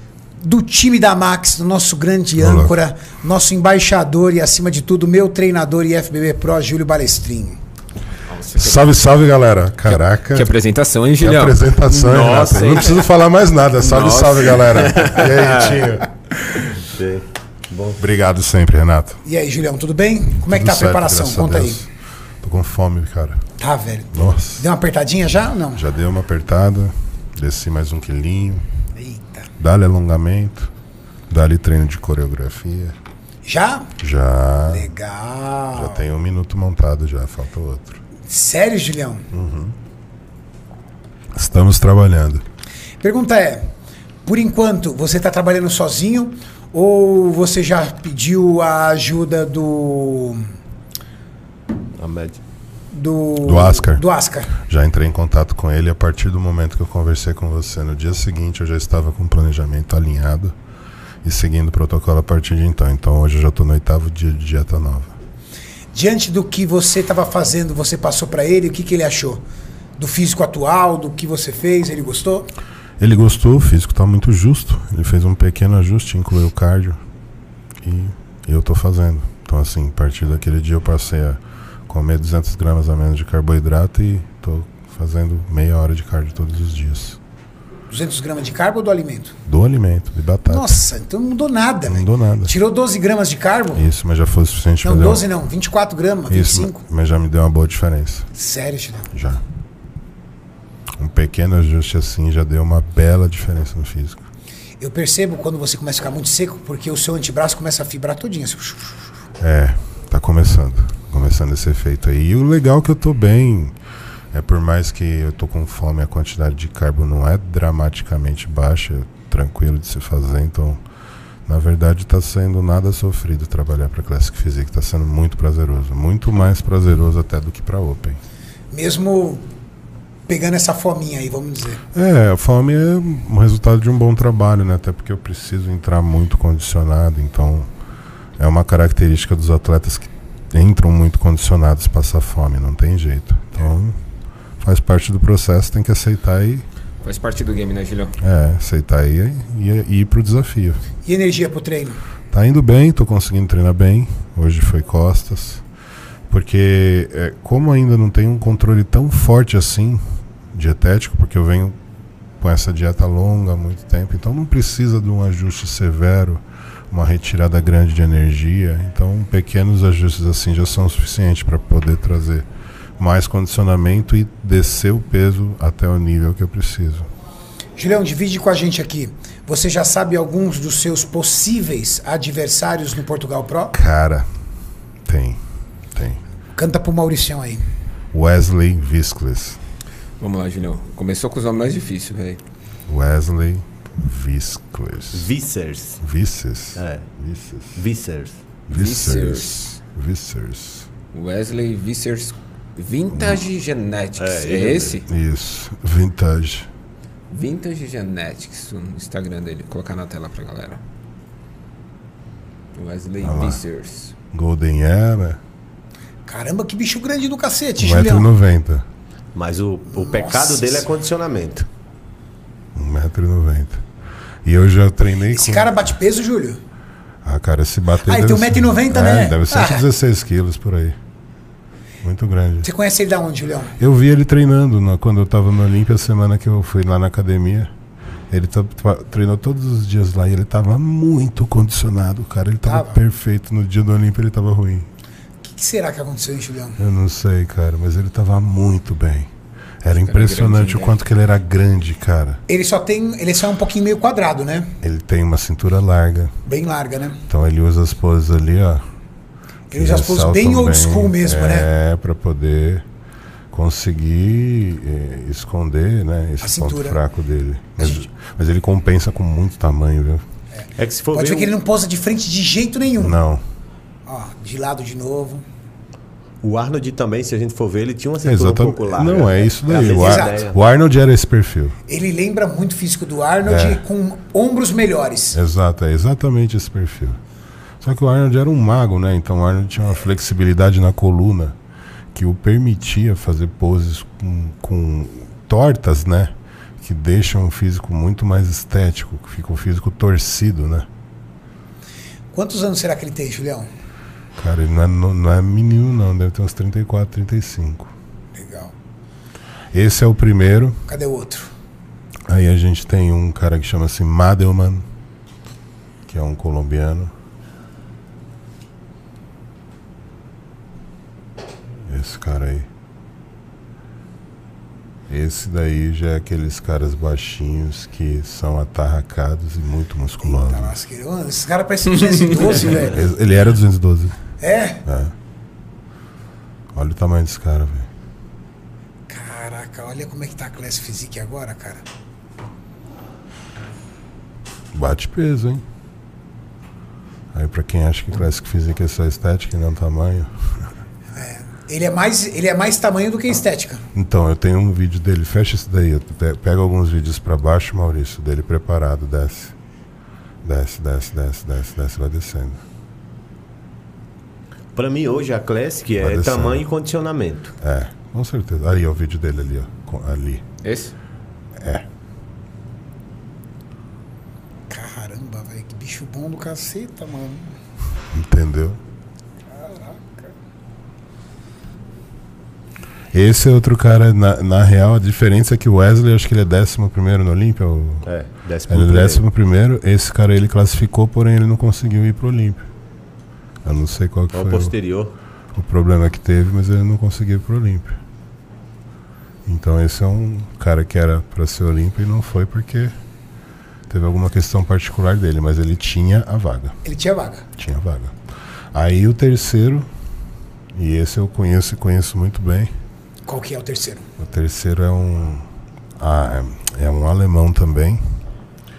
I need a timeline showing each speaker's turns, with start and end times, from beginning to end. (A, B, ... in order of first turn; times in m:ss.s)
0:00.4-0:07.6 A
0:02.4-0:02.8 B
0:08.3-0:09.0 C
0:08.5-0:10.5 B
0:09.9-0:12.8 C
0:11.2-0:16.1 B
0:11.9-0:13.0 D
0:13.8-0:15.9 C
0:16.8-0:18.0 D
0:18.0-0:19.2 B
0:19.2-0:21.8 A
0:20.5-0:21.9 B
0:22.4-0:23.4 B
0:23.6-0:25.8 A
0:24.1-0:24.7 B
0:25.7-0:28.7 B
0:29.0-0:29.5 A
0:29.6-0:30.7 B
0:31.3-0:33.0 B
0:33.4-0:34.0 A
0:34.0-0:34.9 B
0:34.7-0:36.0 A
0:35.7-0:38.0 B
0:38.3-0:39.3 A
0:39.3-0:39.8 B
0:41.3-0:42.4 B
0:43.0-0:43.7 A
0:44.2-0:50.5 A
0:52.0-0:52.4 D
0:52.9-0:54.6 A
0:53.4-1:00.5 B
1:01.2-1:05.2 B
1:05.9-1:09.4 A
1:10.0-1:12.5 A
1:13.0-1:17.0 B
1:17.8-1:27.2 B
1:27.9-1:29.4 A
1:29.5-1:30.8 B
1:30.5-1:33.8 A
1:31.9-1:32.6 B
1:33.8-1:35.3 B
1:34.8-1:36.8 A
1:36.3-1:38.3 B
1:38.3-1:39.1 A
1:39.1-1:39.4 B
1:41.0-1:44.2 B
1:44.8-1:49.1 A
1:49.4-1:53.8 B
1:54.3-2:00.8 B
2:01.5-2:08.2 B
2:08.7-2:09.4 A
2:10.3-2:11.8 A
2:11.9-2:17.7 B
2:18.4-2:24.0 B
2:24.6-2:26.7 B
2:27.0-2:28.2 C
2:28.2-2:30.8 B
2:31.0-2:32.0 A
2:32.3-2:35.6 B
2:36.3-2:41.8 B
2:42.4-2:52.5 B
2:53.0-2:57.1 B
2:57.8-3:03.8 A
3:03.7-3:04.3 B
3:05.1-3:05.4 B
3:05.9-3:06.2 B
3:06.6-3:07.6 A
3:08.1-3:09.6 B
3:10.2-3:12.4 C
3:12.9-3:15.3 B
3:15.1-3:16.0 D
3:16.0-3:17.8 B
3:16.8-3:17.0 D
3:17.8-3:18.4 D
3:18.7-3:20.9 B
3:18.7-3:19.7 C
3:21.1-3:25.1 C
3:23.1-3:23.4 B
3:24.2-3:25.0 D
3:25.1-3:26.7 B
3:27.3-3:30.8 C
3:32.8-3:34.1 C
3:33.2-3:33.6 B
3:34.3-3:35.4 B
3:36.3-3:38.3 A
3:37.8-3:38.9 B
3:39.4-3:41.7 D
3:39.9-3:40.9 A
3:42.8-3:43.8 B
3:44.4-3:45.9 B
3:45.3-3:46.6 A
3:47.2-3:51.0 B
3:48.0-3:49.9 A
3:52.0-3:52.7 B
3:52.6-3:53.8 A
3:53.8-3:57.7 B
3:58.3-4:04.9 B
4:02.7-4:03.0 A
4:05.4-4:06.8 A
4:06.8-4:09.3 B
4:09.8-4:12.4 B
4:09.9-4:11.0 C
4:12.5-4:14.8 A
4:14.8-4:16.3 B
4:16.5-4:17.2 A
4:17.3-4:18.8 B
4:19.7-4:21.7 A
4:19.7-4:22.8 B
4:23.5-4:30.2 B
4:26.4-4:27.0 A
4:30.8-4:31.6 D
4:31.1-4:33.2 A
4:33.0-4:33.4 B
4:34.1-4:35.4 A
4:36.4-4:40.6 D
4:38.2-4:41.8 B
4:39.8-4:40.4 A
4:41.9-4:45.4 A
4:43.4-4:43.8 B
4:45.3-4:47.2 B
4:47.8-4:51.6 B
4:52.1-5:00.9 B
5:02.3-5:03.7 A
5:04.4-5:07.9 B
5:08.3-5:08.7 A
5:09.7-5:10.8 B
5:10.9-5:11.5 A
5:12.3-5:14.8 B
5:16.1-5:17.1 B
5:21.9-5:22.7 B
5:25.1-5:30.8 B
5:30.2-5:33.0 A
5:32.8-5:34.2 B
5:34.4-5:34.8 A
5:34.8-5:35.1 B
5:36.7-5:37.9 B
5:39.1-5:41.8 A
5:44.7-5:45.6 B
5:47.3-5:50.6 B
5:51.1-5:53.8 A
5:54.0-5:59.5 B
6:00.4-6:02.6 B
6:04.8-6:07.6 D
6:06.0-6:06.6 B
6:07.6-6:10.4 B
6:10.6-6:10.9 C
6:11.6-6:11.9 B
6:14.7-6:17.6 A
6:18.1-6:18.8 B
6:19.5-6:20.3 A
6:23.1-6:28.1 B
6:28.0-6:29.2 D
6:28.7-6:32.7 B
6:33.6-6:34.8 B
6:34.3-6:35.2 D
6:35.5-6:38.0 B
6:39.4-6:42.9 B
6:43.9-6:46.8 B
6:46.8-6:47.5 A
6:47.6-6:48.1 B
6:48.7-6:49.9 B
6:50.7-6:52.7 B
6:53.3-6:54.1 A
6:54.2-6:55.5 B
6:56.0-6:58.2 B